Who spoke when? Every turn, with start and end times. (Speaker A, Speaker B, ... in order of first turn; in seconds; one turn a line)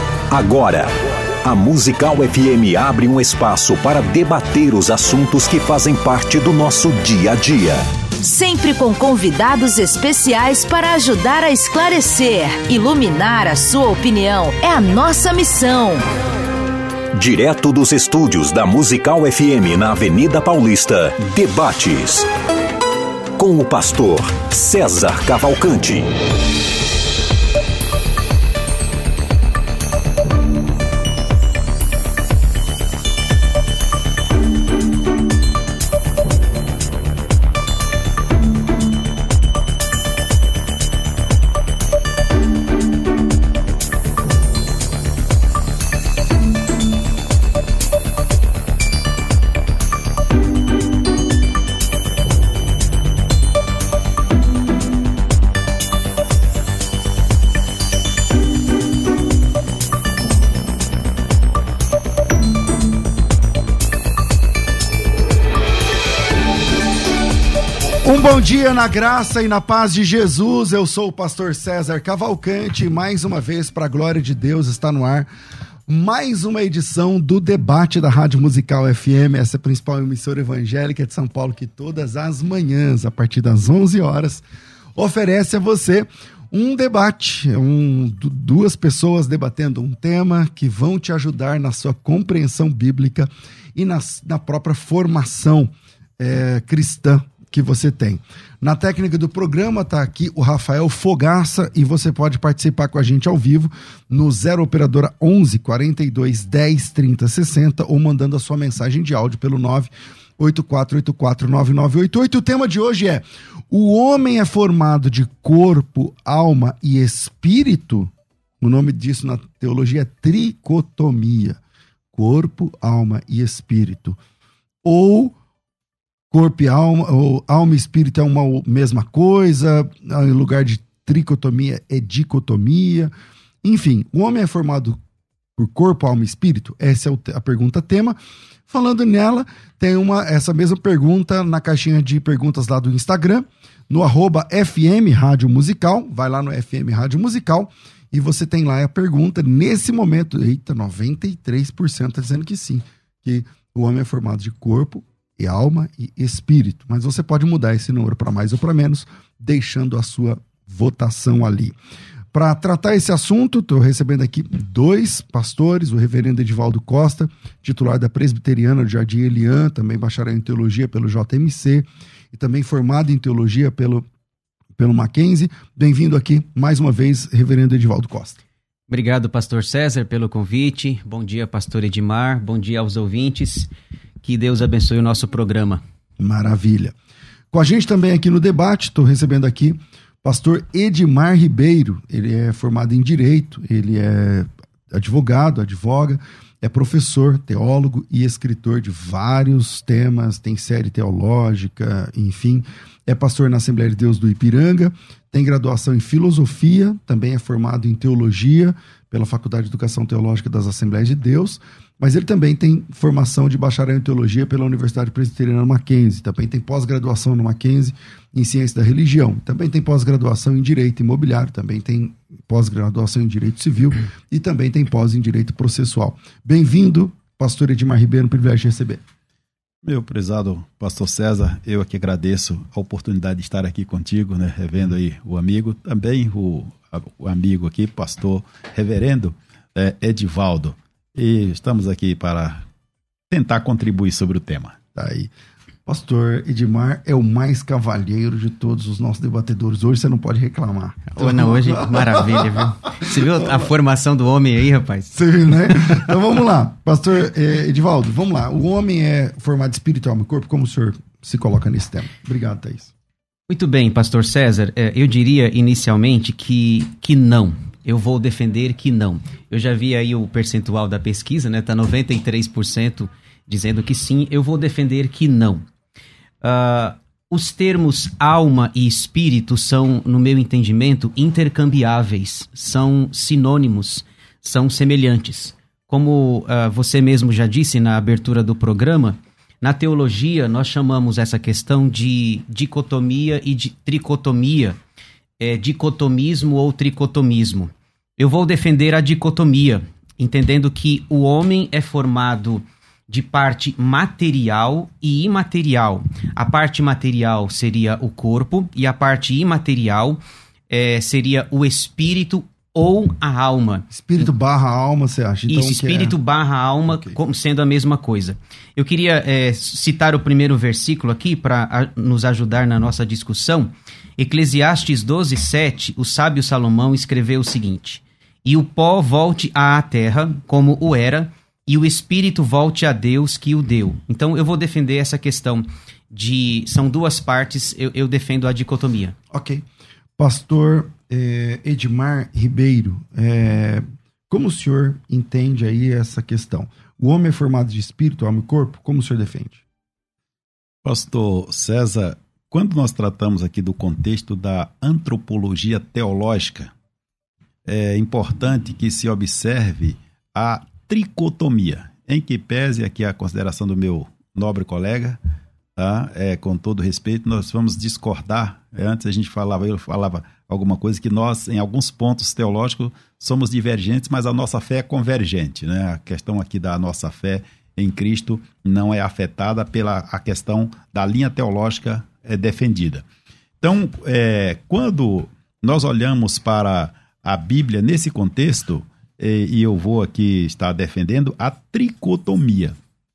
Speaker A: 0.3-0.9
Speaker A: 1.4-7.8
Speaker B: 8.2-16.0
Speaker A: 17.1-22.3
Speaker A: 23.4-26.1
Speaker C: 68.0-75.3
Speaker C: 75.9-84.4
Speaker C: 85.0-121.6
Speaker C: 122.1-124.2
Speaker C: 124.8-125.3
Speaker C: 126.3-133.1
Speaker C: 133.6-135.0
Speaker C: 135.6-138.2
Speaker C: 138.7-161.8
Speaker C: 162.3-174.1
Speaker C: 174.8-178.4
Speaker D: 178.9-183.7
Speaker D: 184.2-185.8
Speaker C: 186.2-186.9
Speaker C: 187.5-229.0
Speaker E: 229.8-242.6
Speaker E: 243.3-244.8
Speaker C: 244.9-245.3
Speaker C: 245.8-253.1
Speaker D: 251.1-256.1
Speaker C: 255.1-262.9
Speaker D: 263.5-275.6
Speaker D: 276.4-294.8
Speaker D: 295.4-314.3
Speaker C: 313.9-316.1
Speaker D: 315.5-339.1
Speaker C: 339.3-339.6
Speaker C: 340.2-349.6
Speaker E: 350.8-356.7
Speaker E: 357.6-365.2
Speaker E: 365.8-383.0
Speaker E: 383.6-392.8